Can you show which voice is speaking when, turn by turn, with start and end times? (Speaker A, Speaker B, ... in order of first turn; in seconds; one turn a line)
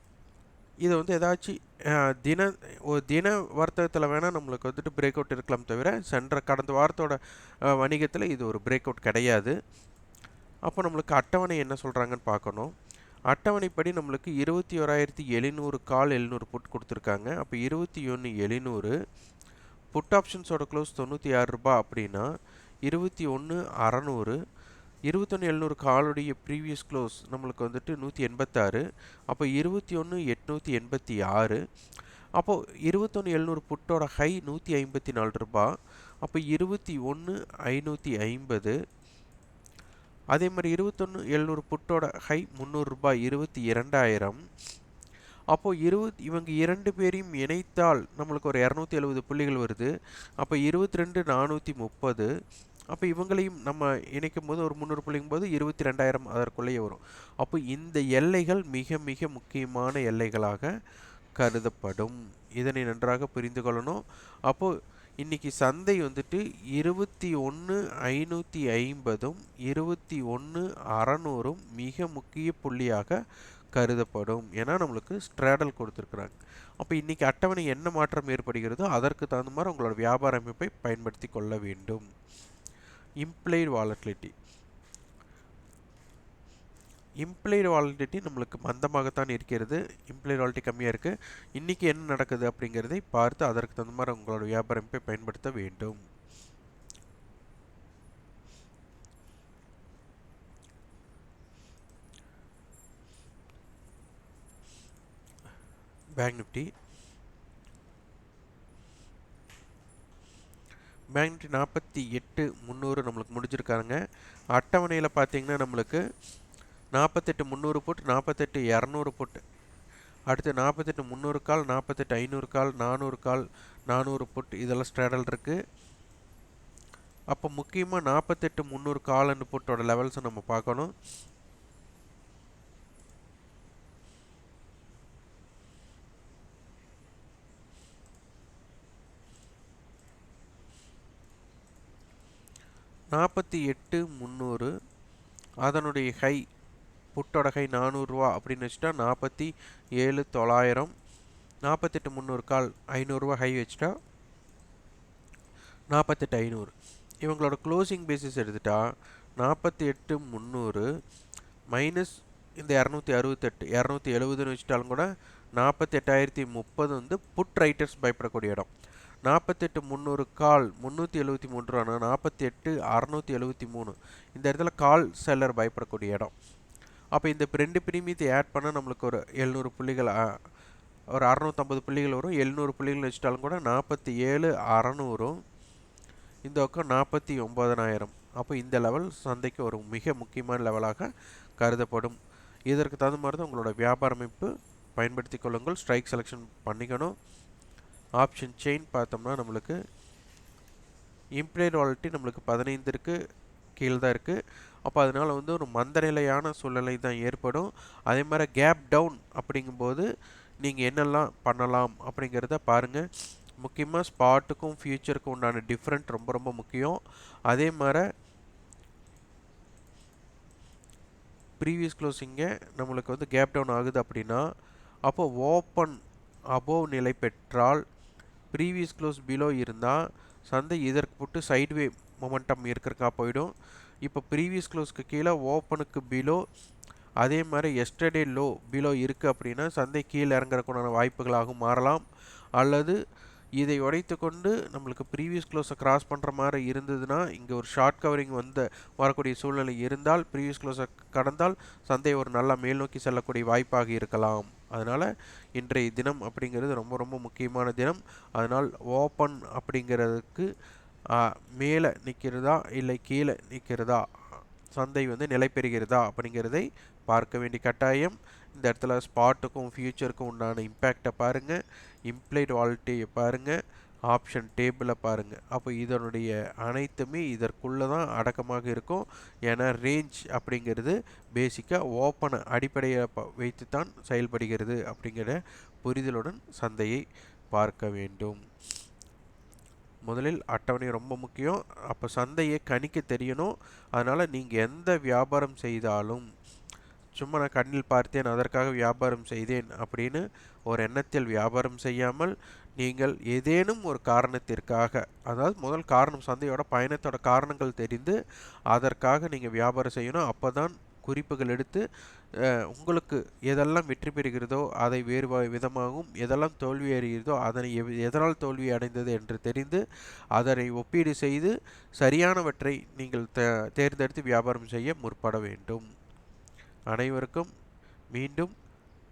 Speaker A: 0.9-7.2
Speaker A: 7.7-9.6
Speaker A: 10.7-12.7
Speaker A: 13.3-18.9
Speaker A: 19.9-22.3
Speaker A: 22.9-24.4
Speaker A: 25.1-31.6
Speaker A: 32.4-35.7
Speaker A: 36.2-38.8
Speaker A: 40.3-44.4
Speaker A: 45.5-49.9
Speaker A: 50.4-52.3
Speaker A: 52.9-60.7
Speaker A: 61.4-73.2
Speaker A: 73.8-82.0
Speaker A: 83.2-84.3
Speaker A: 87.2-96.0
Speaker A: 106.2-106.7
Speaker A: 111.2-114.0
Speaker A: 114.5-116.0
Speaker A: 117.0-119.4
Speaker A: 120.3-125.6
Speaker A: 127.3-130.9
Speaker A: 143.1-144.7
Speaker A: 145.7-146.4
Speaker A: 147.2-150.9
Speaker A: 151.7-153.9
Speaker A: 155.9-156.7
Speaker A: 157.2-158.8
Speaker A: 159.4-160.9
Speaker A: 161.7-168.7
Speaker A: 169.3-176.3
Speaker A: 177.2-180.2
Speaker A: 181.2-185.4
Speaker A: 186.5-192.2
Speaker A: 192.7-197.1
Speaker A: 198.2-199.8
Speaker A: 201.4-203.2
Speaker A: 203.8-210.1
Speaker A: 210.6-213.0
Speaker A: 213.6-217.0
Speaker A: 217.5-218.0
Speaker A: 221.6-224.4
Speaker A: 225.1-226.0
Speaker A: 226.5-227.8
Speaker A: 228.5-230.0
Speaker A: 230.5-233.5
Speaker A: 234.1-236.4
Speaker A: 237.2-242.0
Speaker A: 242.6-243.0
Speaker A: 243.6-260.5
Speaker A: 261.2-264.0
Speaker A: 264.8-273.6
Speaker A: 274.1-287.0
Speaker A: 287.5-288.4
Speaker A: 290.1-296.3
Speaker A: 297.2-308.2
Speaker A: 308.7-311.8
Speaker A: 312.7-319.8
Speaker A: 320.4-325.9
Speaker A: 326.9-327.5
Speaker A: 328.1-328.5